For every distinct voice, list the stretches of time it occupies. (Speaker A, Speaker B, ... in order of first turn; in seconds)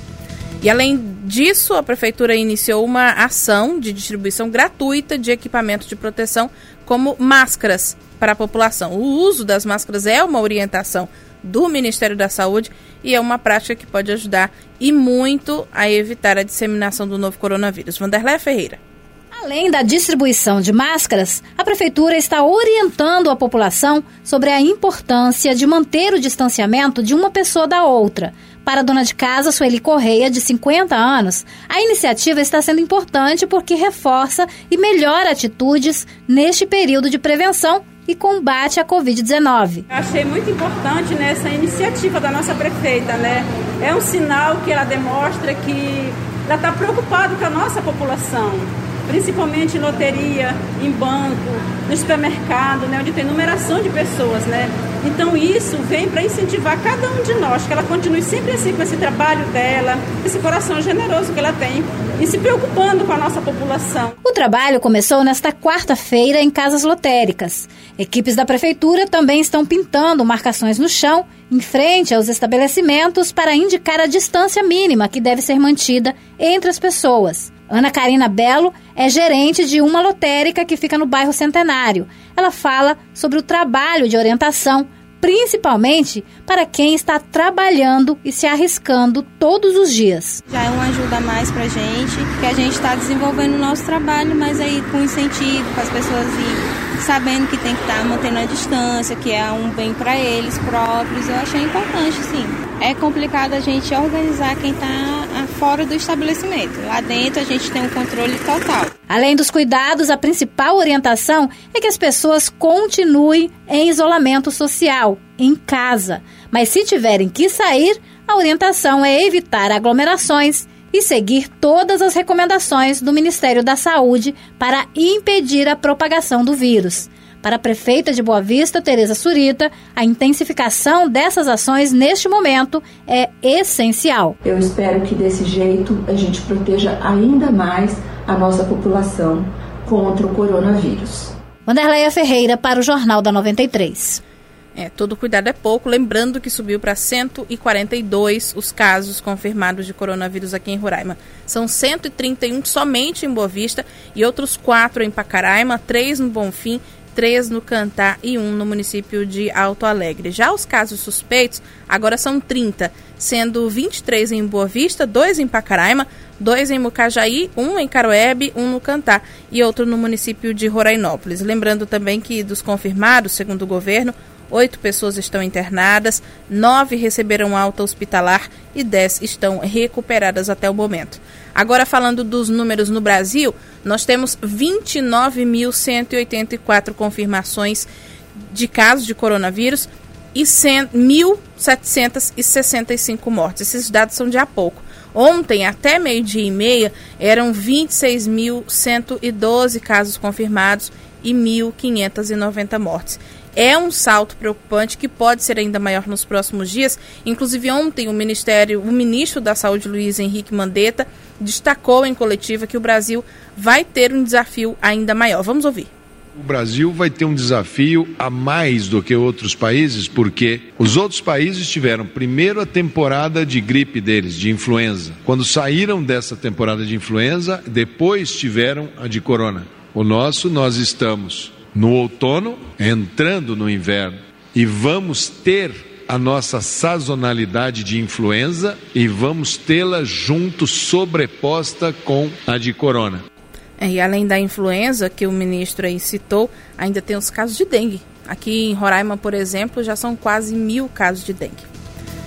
Speaker A: 0.6-18.8, 144.7-187.9, 188.5-215.9, 243.8-251.7
Speaker B: 19.3-39.9, 64.2-90.4, 109.1-134.4, 141.7-144.2
Speaker C: 39.9-64.2
Speaker D: 90.5-108.9
Speaker E: 134.4-141.3
Speaker F: 216.3-243.2